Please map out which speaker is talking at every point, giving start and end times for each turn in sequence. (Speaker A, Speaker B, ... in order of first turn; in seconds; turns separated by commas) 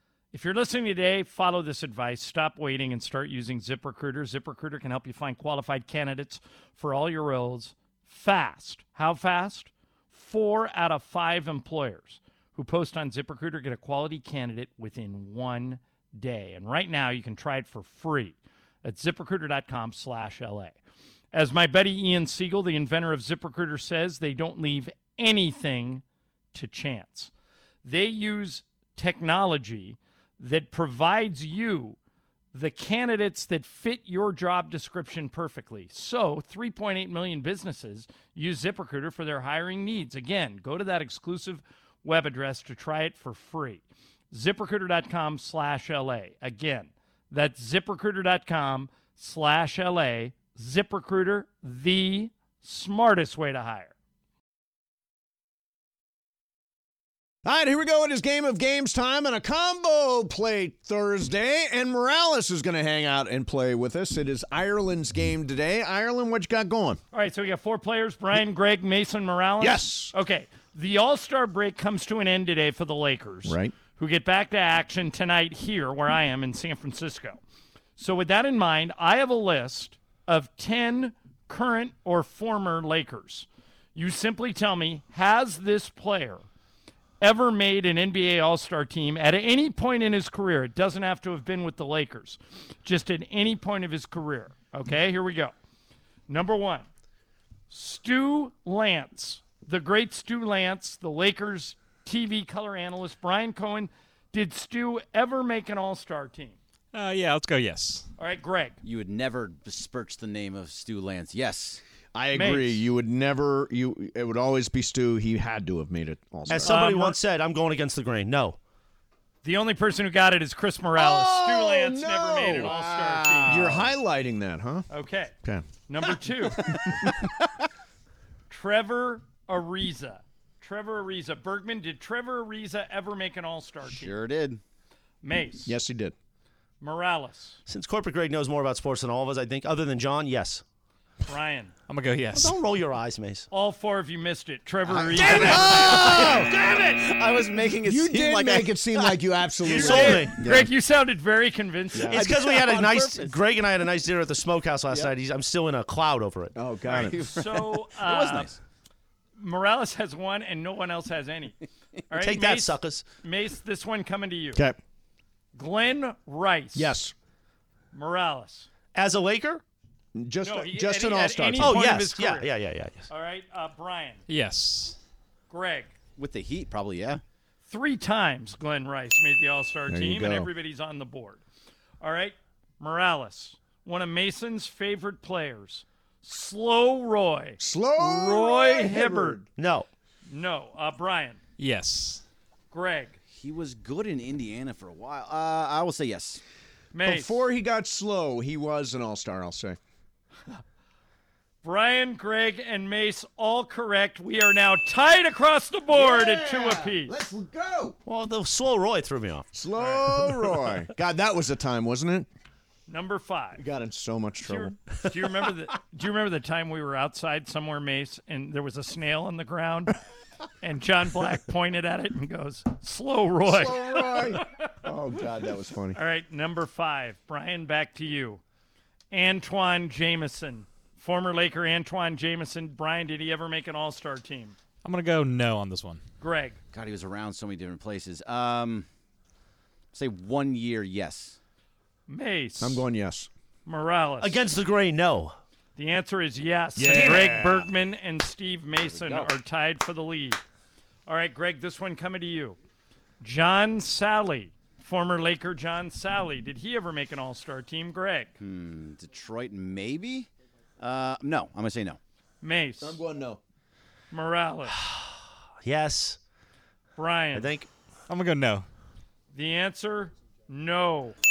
Speaker A: 0.3-20.8, Speaker A: 21.3-27.3, Speaker A: 27.8-32.0, Speaker A: 32.5-53.9, Speaker B: 57.5-67.0, Speaker A: 67.1-77.4, Speaker B: 69.6-70.1, Speaker B: 73.5-73.7, Speaker A: 78.0-86.4, Speaker A: 87.2-95.5, Speaker A: 96.3-96.9, Speaker A: 97.7-106.6, Speaker C: 106.9-108.1, Speaker A: 108.2-108.8, Speaker D: 108.8-111.8, Speaker B: 112.2-116.8, Speaker A: 112.3-112.8, Speaker E: 116.5-118.6, Speaker A: 116.5-117.2, Speaker A: 119.4-123.9, Speaker B: 121.0-122.8, Speaker D: 122.7-123.9, Speaker B: 123.4-124.9, Speaker A: 124.9-125.3, Speaker A: 125.9-126.7, Speaker B: 126.7-127.1, Speaker A: 128.5-134.2, Speaker D: 133.9-134.6, Speaker A: 135.2-135.7, Speaker B: 135.7-136.1, Speaker A: 136.8-137.6, Speaker E: 137.7-140.6, Speaker A: 141.2-141.7, Speaker C: 141.9-142.6, Speaker E: 142.3-143.5, Speaker A: 143.5-146.1, Speaker D: 144.9-149.2, Speaker B: 145.2-146.7, Speaker E: 145.2-147.5, Speaker B: 147.8-150.7, Speaker A: 149.6-152.3, Speaker E: 149.7-150.4, Speaker B: 151.9-153.3, Speaker E: 152.1-156.6, Speaker D: 152.6-153.1, Speaker B: 156.6-157.2, Speaker D: 156.9-158.6, Speaker A: 157.0-158.5, Speaker A: 159.4-161.6, Speaker A: 162.1-164.7, Speaker E: 162.2-163.1, Speaker A: 165.6-167.0, Speaker B: 166.8-167.1, Speaker A: 167.9-168.7, Speaker E: 168.9-169.6, Speaker B: 170.2-171.9, Speaker A: 170.4-172.5, Speaker E: 171.6-173.1, Speaker A: 173.1-174.2, Speaker C: 174.3-175.0, Speaker A: 175.5-175.9, Speaker D: 176.2-177.2, Speaker A: 177.7-181.4, Speaker B: 179.9-180.5, Speaker A: 182.0-189.4, Speaker B: 187.6-189.4, Speaker E: 189.6-189.9, Speaker A: 190.3-191.4, Speaker C: 191.6-192.2, Speaker A: 192.7-193.2, Speaker D: 193.3-196.4, Speaker A: 196.9-197.4, Speaker B: 197.0-199.8, Speaker A: 201.6-207.1, Speaker B: 205.9-208.0, Speaker E: 208.1-209.5, Speaker B: 209.5-212.3, Speaker A: 209.8-210.2, Speaker A: 212.9-213.6, Speaker B: 213.6-214.8, Speaker A: 214.4-220.0, Speaker A: 220.6-224.6, Speaker B: 223.4-226.0, Speaker A: 225.9-228.4, Speaker A: 229.1-234.6, Speaker C: 234.8-236.0, Speaker A: 236.2-236.6, Speaker D: 236.7-238.9, Speaker D: 239.9-241.4, Speaker A: 242.1-242.8, Speaker B: 242.6-243.3, Speaker A: 243.7-244.4, Speaker E: 244.2-245.4, Speaker A: 245.8-250.4, Speaker B: 246.8-247.7, Speaker E: 246.9-247.3, Speaker D: 248.9-249.3, Speaker A: 251.1-252.6, Speaker A: 253.2-258.3, Speaker D: 258.4-262.0, Speaker A: 262.4-263.0, Speaker B: 262.8-263.4, Speaker A: 264.1-264.8, Speaker E: 264.8-266.2, Speaker A: 267.0-267.5, Speaker E: 267.4-267.7, Speaker C: 268.1-268.7, Speaker A: 269.3-271.2